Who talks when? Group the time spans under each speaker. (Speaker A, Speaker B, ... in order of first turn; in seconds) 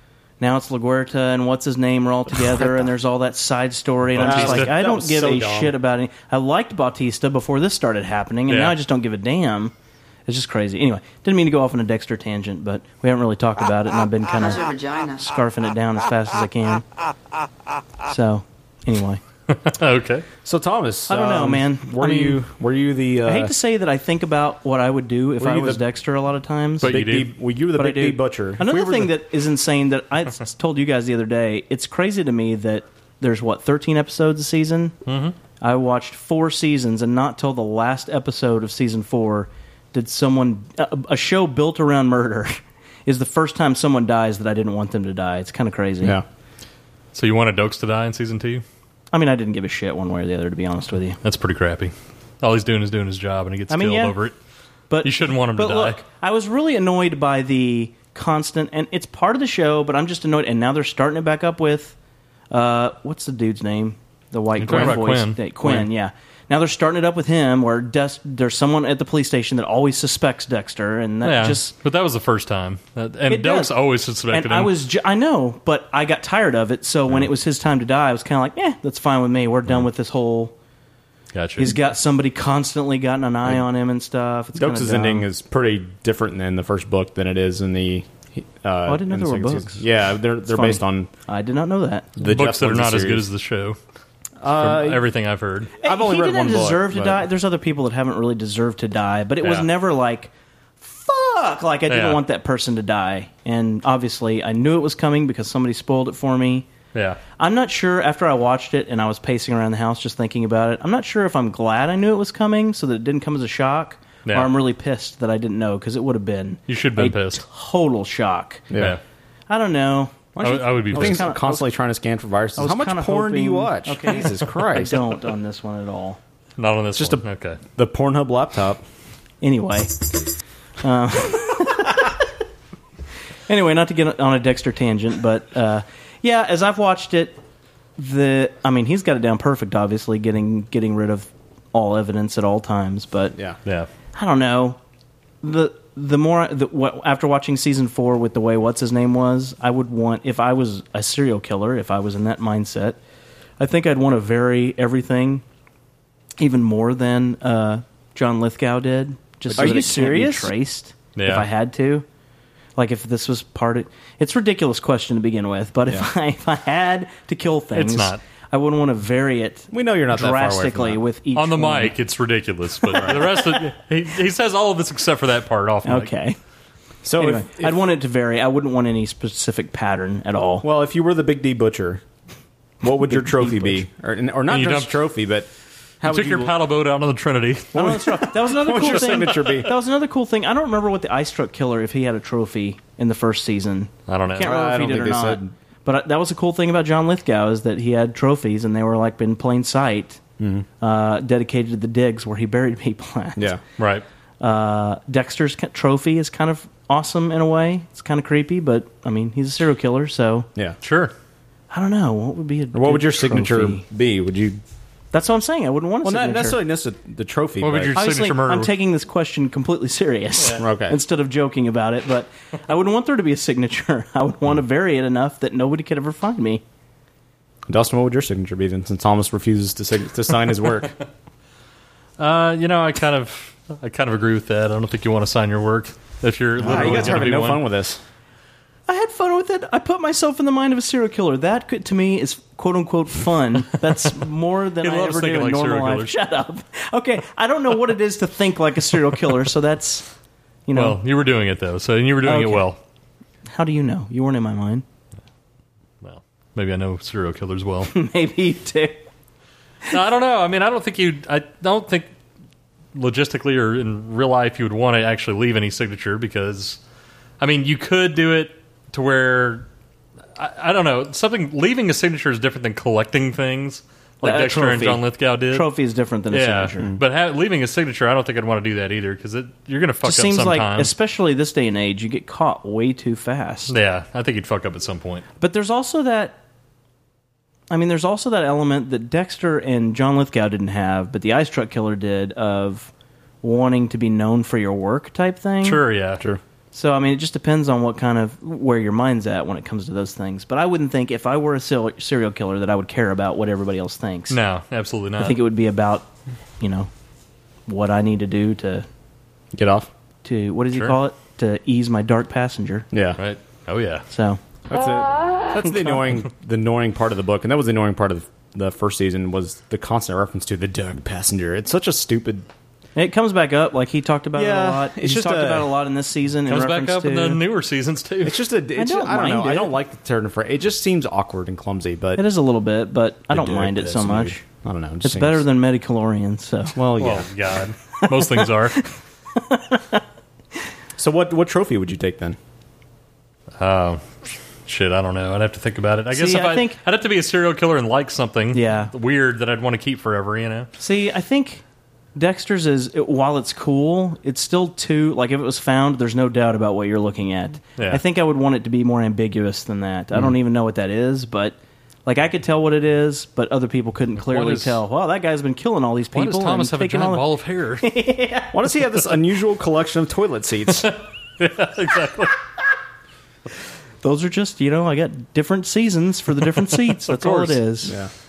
Speaker A: 0.4-9.7, 10.3-16.8, 18.1-19.2, 21.1-22.5, 23.2-27.1, 27.8-35.0, 35.6-46.2, 49.1-51.2, 53.7-54.2, 54.9-62.0, 62.5-71.7, 73.3-73.7, 74.3-80.5, 81.6-85.3, 88.9-89.9, 90.5-92.1, 95.8-106.7, 107.4-118.7, 119.5-120.3, 120.9-121.7, 122.6-126.2, 129.4-129.9, 130.8-132.1, 133.5-137.4, 138.0-143.3, 144.2-144.8, 145.4-153.0, 153.6-155.4, 156.4-162.1, 162.8-171.9, 173.0-173.3, 175.8-176.4, 177.2-180.7, 183.1-183.8, 187.7-200.2, 200.8-203.5, 204.4-210.5, 211.7-213.8, 215.1-216.6, 217.9-226.6, 236.7-237.2, 238.9-250.1, 250.7-251.0, 252.2-252.7, 253.5-254.8, 257.9-259.0, 274.2-276.9, 280.0-283.7, 285.4-286.4, 287.7-292.9, 293.4-295.8, 296.7-304.4, 305.2-306.1, 306.6-306.9, 307.7-308.9, 310.2-312.9, 314.1-314.4, 315.6-316.1, 323.0-327.4, 328.8-329.8, 332.2-334.4, 335.0-336.8, 339.4-340.0, 346.1-346.8, 348.5-348.9, 350.8-351.6, 352.2-367.2, 367.8-368.5, 374.0-377.9
Speaker B: 4.1-4.7, 8.5-8.8, 19.5-20.2, 26.8-27.3, 35.1-35.4, 47.1-48.6, 51.2-54.3, 55.0-56.0, 64.6-65.8, 71.2-74.7, 81.3-81.7, 92.2-93.8, 94.5-95.7, 99.4-99.7, 101.9-102.2, 106.9-107.2, 114.3-114.5, 116.7-117.4, 120.4-121.3, 126.6-127.6, 161.2-161.5, 167.8-168.2, 171.3-176.1, 184.5-185.0, 186.0-188.0, 188.8-189.5, 194.1-194.5, 203.8-204.0, 210.8-211.1, 217.6-218.7, 232.2-237.7, 244.8-246.2, 250.8-252.8, 256.0-257.9, 259.9-262.1, 262.9-266.8, 267.4-269.7, 270.4-275.7, 276.3-280.9, 283.7-285.2, 295.6-296.2, 304.3-305.4, 313.2-314.1, 326.5-328.4, 337.0-338.8, 343.6-350.7, 364.2-364.8, 366.1-367.9, 370.8-372.4, 376.9-377.6
Speaker C: 4.2-5.7, 20.4-23.5, 25.4-25.8, 26.8-29.2, 84.5-91.1, 92.2-93.3, 94.4-95.0, 95.8-97.3, 118.7-119.0, 120.3-125.1, 127.0-127.2, 127.8-128.8, 159.5-160.5, 169.7-171.0, 173.0-173.3, 177.0-177.8, 180.6-182.0, 182.8-185.5, 186.0-186.6, 187.8-189.7, 194.4-195.5, 200.4-200.7, 212.7-214.6, 216.0-218.0, 220.6-221.0, 227.7-230.9, 236.6-238.0, 309.5-309.9, 312.9-313.2, 314.7-322.5, 324.4-325.7, 328.2-332.2, 333.3-335.4, 336.8-337.3, 341.0-342.4, 368.5-370.9, 377.9-378.1